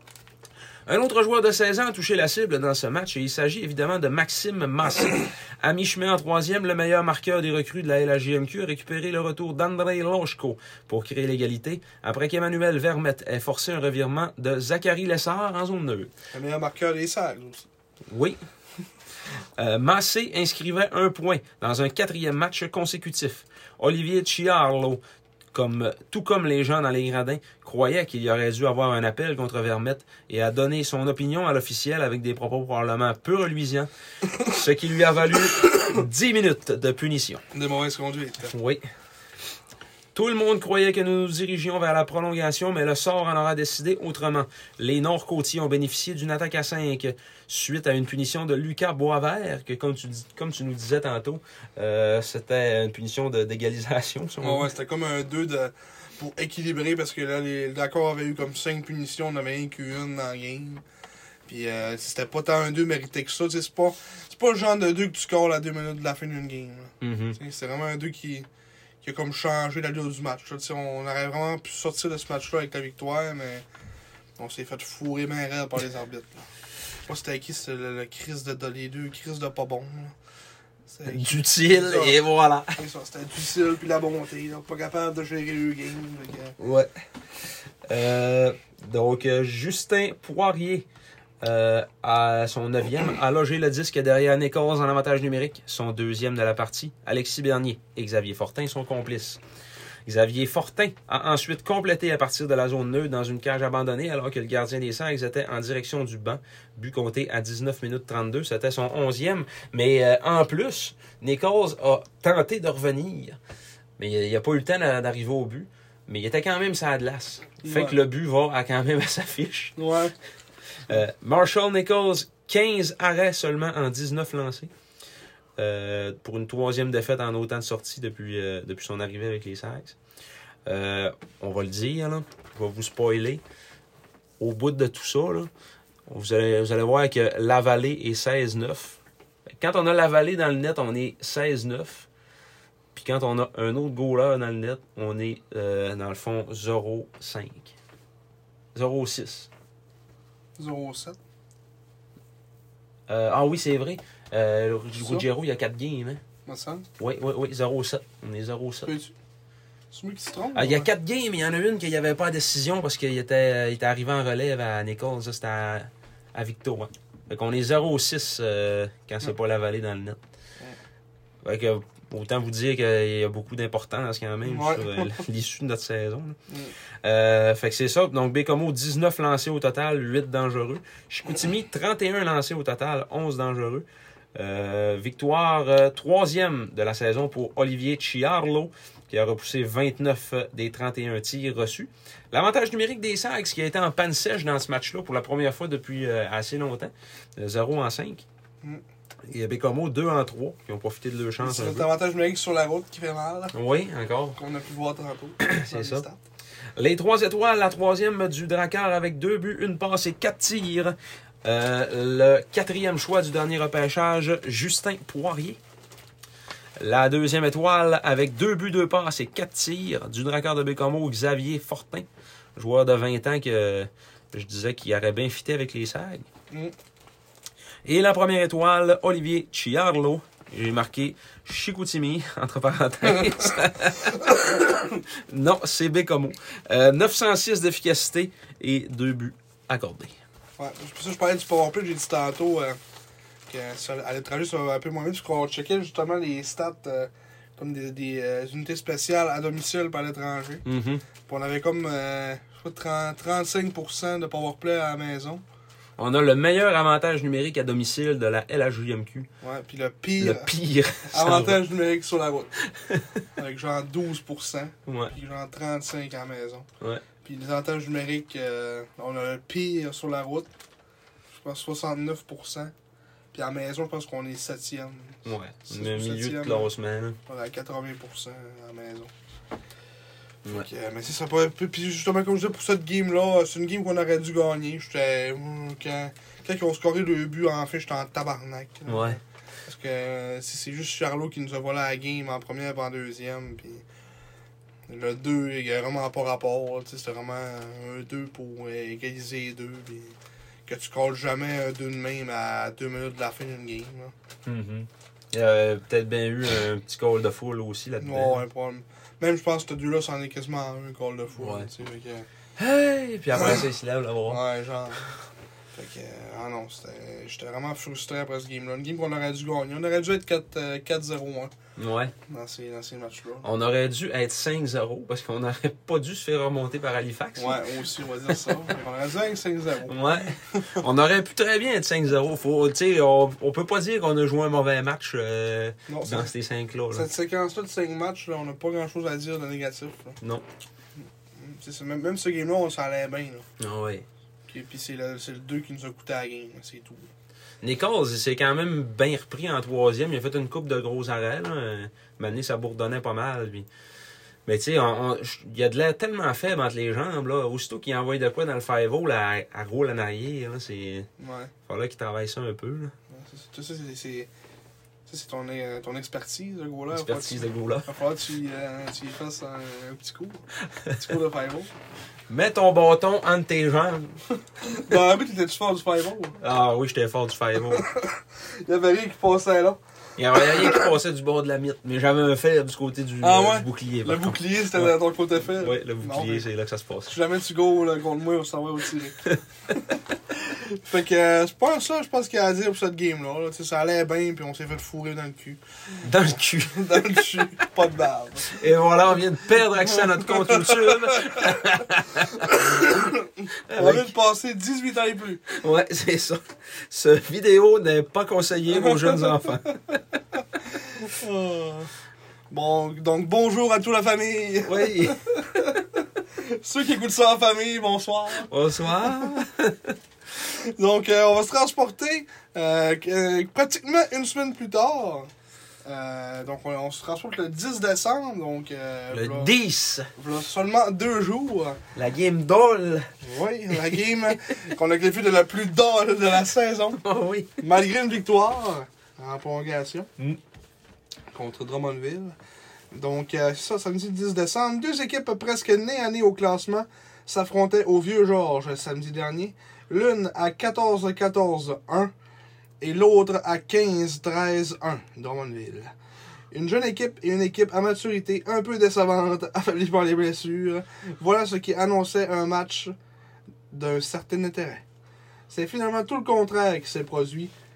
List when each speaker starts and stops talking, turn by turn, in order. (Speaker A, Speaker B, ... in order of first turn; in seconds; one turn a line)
Speaker A: 0.9-16.1
Speaker B: 16.3-17.7
Speaker A: 18.1-18.4
Speaker A: 19.6-25.0
Speaker A: 25.5-37.4
Speaker B: 37.5-38.5
Speaker A: 38.5-38.9
Speaker A: 40.1-54.7
Speaker B: 54.4-60.8
Speaker B: 61.5-68.5
Speaker A: 67.0-67.4
Speaker B: 69.0-73.7
Speaker B: 74.4-76.5
Speaker B: 77.1-80.2
Speaker B: 80.9-82.2
Speaker A: 81.1-82.8
Speaker B: 82.8-86.6
Speaker A: 86.6-86.9
Speaker A: 87.9-90.9
Speaker A: 91.4-99.4
Speaker A: 100.1-113.4
Speaker A: 114.0-119.8
Speaker B: 117.6-118.0
Speaker B: 119.8-120.2
Speaker A: 120.9-124.7
Speaker A: 125.6-130.0
Speaker A: 130.7-133.4
Speaker A: 134.4-135.5
Speaker A: 136.1-139.0
Speaker A: 139.6-142.1
Speaker A: 142.9-147.8
Speaker A: 148.8-149.5
Speaker B: 150.6-151.2
Speaker A: 153.1-156.2
Speaker B: 155.0-155.3
Speaker B: 156.5-156.9
Speaker A: 157.0-158.9
Speaker B: 158.8-159.1
Speaker B: 159.9-160.9
Speaker A: 160.6-170.2
Speaker A: 171.4-176.4
Speaker B: 174.4-175.2
Speaker B: 176.5-176.7
Speaker A: 177.0-198.2
Speaker A: 199.3-201.9
Speaker B: 201.4-203.5
Speaker A: 203.5-204.4
Speaker B: 204.4-206.2
Speaker A: 205.4-206.1
Speaker A: 206.8-215.6
Speaker A: 216.8-226.3
Speaker A: 227.8-240.2
Speaker B: 240.6-242.8
Speaker B: 243.5-250.6
Speaker A: 250.7-251.0
Speaker B: 251.3-255.4
Speaker A: 256.0-259.3
Speaker B: 259.4-260.5
Speaker A: 260.2-261.6
Speaker B: 261.1-262.5
Speaker A: 262.6-263.2
Speaker B: 263.4-266.7
Speaker A: 264.9-265.1
Speaker B: 267.2-270.5
Speaker B: 271.3-272.7
Speaker B: 273.3-276.7
Speaker A: 275.2-277.2
Speaker B: 277.3-279.1
Speaker B: 280.5-293.9
Speaker A: 288.9-289.2
Speaker B: 294.9-304.1
Speaker A: 304.4-308.4
Speaker B: 308.0-312.3
Speaker A: 311.4-311.7
Speaker A: 312.6-314.4
Speaker B: 313.4-313.6
Speaker B: 314.3-315.2
Speaker B: 315.8-321.5
Speaker A: 321.8-322.1
Speaker B: 322.3-323.5
Speaker A: 323.4-327.6
Speaker B: 327.4-330.8
Speaker A: 329.9-337.1
Speaker B: 335.9-336.3
Speaker B: 336.9-340.2
Speaker B: 341.0-343.5
Speaker A: 343.6-344.1
Speaker B: 344.5-347.1
Speaker A: 347.6-353.7
Speaker A: 354.5-361.1
Speaker B: 361.2-361.5
Speaker A: 361.7-362.9
Speaker B: 363.1-364.3
Speaker B: 365.1-371.7
Speaker A: 366.9-367.9
Speaker A: 372.3-374.2
Speaker B: 374.6-376.4
Speaker A: 376.4-377.9
Speaker B: 377.7-379.8
Speaker A: 380.2-387.2
Speaker B: 380.3-380.9
Speaker B: 383.2-386.5
Speaker B: 387.1-398.7
Speaker A: 396.0-397.2
Speaker A: 398.5-403.1
Speaker B: 399.7-401.6
Speaker B: 402.3-405.6
Speaker A: 403.7-404.1
Speaker A: 405.5-410.0
Speaker B: 408.7-409.5
Speaker B: 410.8-411.9
Speaker B: 412.5-419.3
Speaker A: 414.6-415.8
Speaker A: 418.4-419.9
Speaker B: 420.4-425.3
Speaker B: 425.9-429.5
Speaker A: 429.1-430.1
Speaker B: 430.2-431.8
Speaker A: 431.9-433.1
Speaker B: 433.2-437.0
Speaker A: 433.7-434.0
Speaker A: 437.0-437.6
Speaker B: 437.6-440.1
Speaker B: 441.3-442.4
Speaker B: 442.9-452.1
Speaker B: 452.8-455.9
Speaker B: 456.5-462.9
Speaker B: 463.7-464.8
Speaker B: 465.5-467.5